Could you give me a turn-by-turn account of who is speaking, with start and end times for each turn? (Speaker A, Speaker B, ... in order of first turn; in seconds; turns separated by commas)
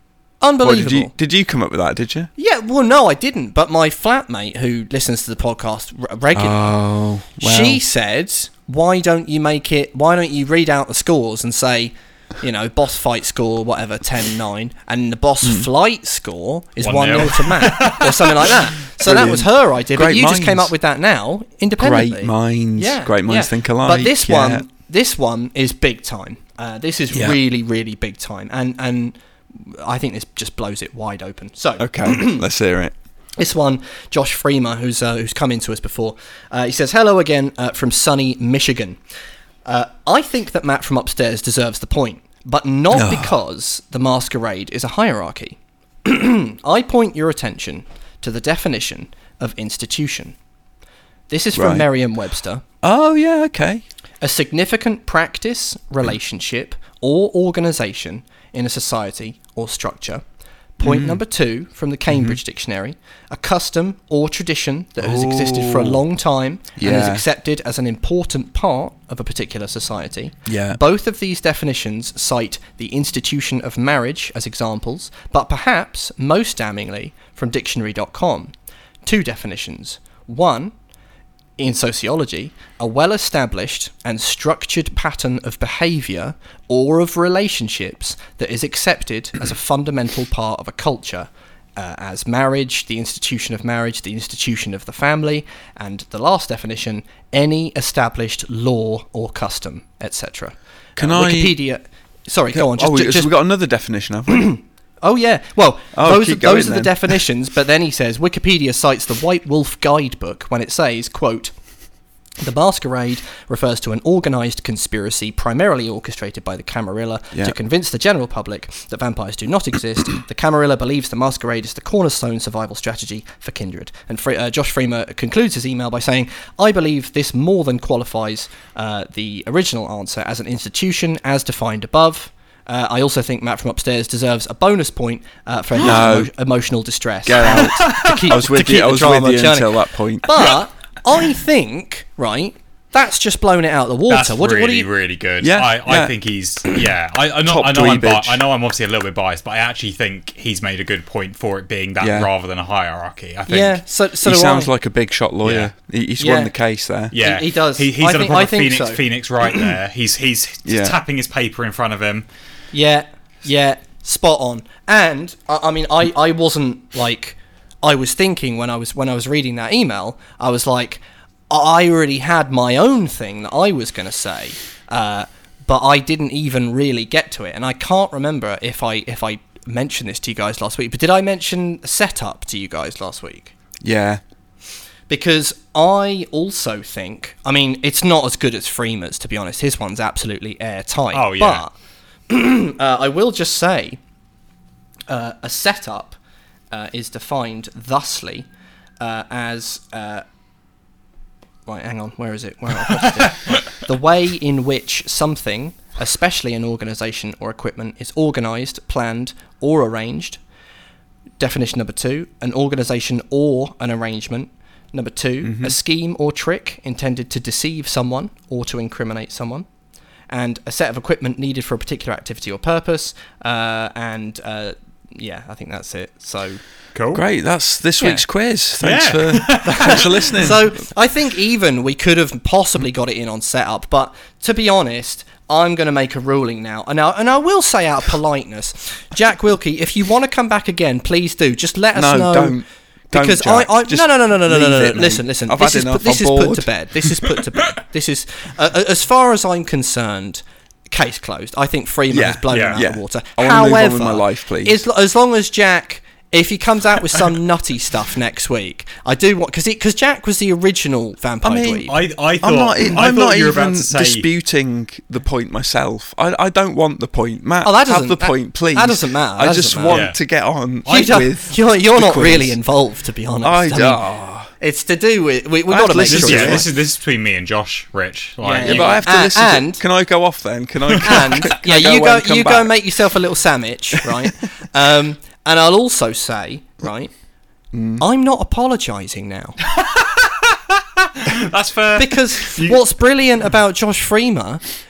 Speaker A: 0.4-1.1, Speaker B: 0.6-2.3, Speaker A: 2.4-6.7, Speaker B: 6.3-7.8, Speaker A: 7.4-32.4, Speaker B: 15.4-15.7, Speaker C: 16.8-18.6, Speaker B: 19.0-20.7, Speaker B: 21.8-24.6, Speaker B: 27.1-27.4, Speaker B: 31.8-32.9, Speaker A: 33.4-39.0, Speaker A: 39.7-50.4, Speaker B: 42.9-43.3, Speaker A: 51.3-52.6, Speaker B: 51.5-51.9, Speaker B: 52.8-53.8, Speaker A: 54.2-60.2, Speaker A: 60.8-80.8, Speaker B: 60.8-61.2, Speaker B: 62.1-62.4, Speaker B: 65.0-66.0, Speaker B: 66.8-67.2, Speaker B: 70.5-70.8, Speaker A: 81.6-103.3, Speaker B: 101.0-101.6, Speaker B: 102.5-104.5, Speaker A: 104.3-111.8, Speaker B: 105.9-107.2, Speaker A: 112.4-144.9, Speaker B: 117.3-117.6, Speaker B: 135.8-136.3, Speaker B: 137.2-140.6, Speaker C: 137.9-138.2, Speaker C: 144.1-153.8, Speaker B: 145.4-146.1, Speaker B: 147.4-148.4, Speaker B: 152.0-152.3, Speaker A: 153.5-154.7, Speaker B: 154.2-157.1, Speaker C: 155.4-155.7, Speaker A: 156.2-156.5, Speaker C: 157.1-162.3, Speaker A: 157.1-159.7, Speaker B: 160.7-161.0, Speaker A: 162.7-183.5, Speaker B: 183.8-184.2, Speaker A: 185.1-191.8, Speaker C: 191.1-191.6, Speaker A: 192.3-194.0, Speaker A: 195.1-196.2, Speaker A: 196.7-198.5, Speaker A: 199.0-200.2, Speaker A: 201.7-210.4, Speaker A: 211.4-219.7, Speaker B: 215.4-215.8, Speaker A: 220.3-226.6, Speaker C: 226.9-227.2, Speaker B: 227.1-230.7, Speaker C: 228.8-230.5, Speaker A: 229.7-242.6, Speaker B: 241.9-246.7, Speaker A: 243.1-262.0, Speaker B: 252.1-254.8, Speaker C: 252.5-252.8, Speaker B: 261.4-261.9, Speaker C: 261.9-264.3, Speaker B: 262.4-272.6, Speaker A: 267.6-270.1, Speaker C: 269.9-270.2, Speaker A: 270.9-276.7, Speaker B: 273.4-274.5, Speaker B: 275.7-276.7, Speaker C: 276.1-279.0, Speaker A: 278.4-279.8, Speaker B: 278.6-282.9, Speaker A: 281.0-287.1, Speaker B: 287.7-288.1, Speaker A: 288.0-289.6, Speaker C: 289.8-292.8, Speaker A: 291.9-294.7